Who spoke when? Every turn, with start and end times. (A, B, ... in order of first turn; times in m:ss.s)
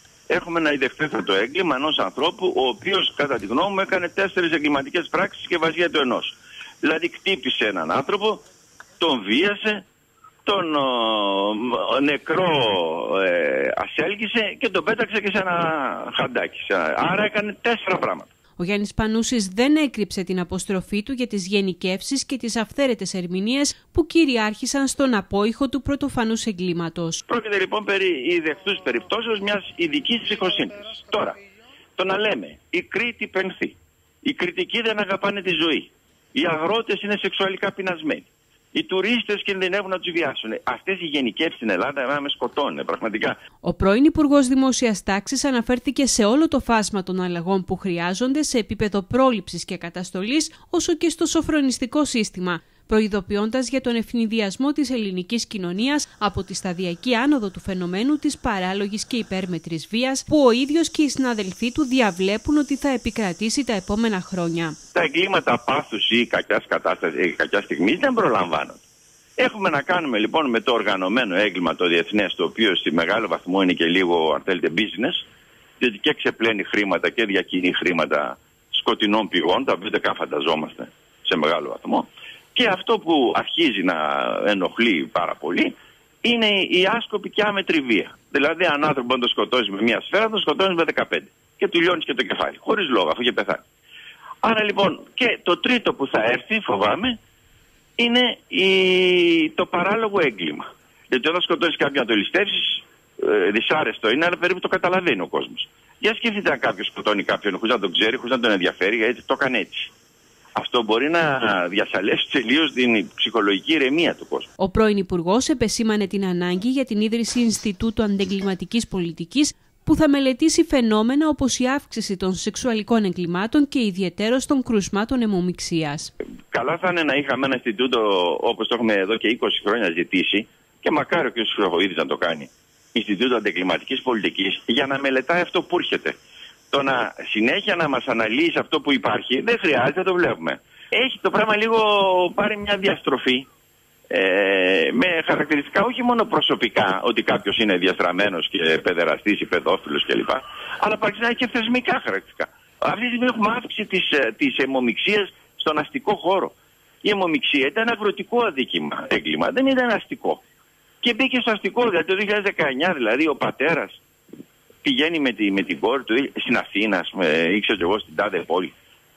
0:00.3-0:08.4 A
0:09.0-0:09.8 A
0:10.4-0:18.3 A
0:18.6-0:27.2 B
0:27.3-0:31.4 A
0:32.0-0:43.4 A
0:43.6-1:04.8 B
1:04.9-1:08.8 A
1:09.4-1:15.2 A
1:15.8-1:33.6 A
1:34.4-1:37.2 A
1:38.0-1:49.9 A
1:50.6-1:54.5 A
1:54.6-2:06.1 B
2:06.5-2:16.2 A
2:16.7-2:23.5 A
2:24.1-2:40.4 A
2:41.0-2:44.0 A
2:44.8-2:48.7 A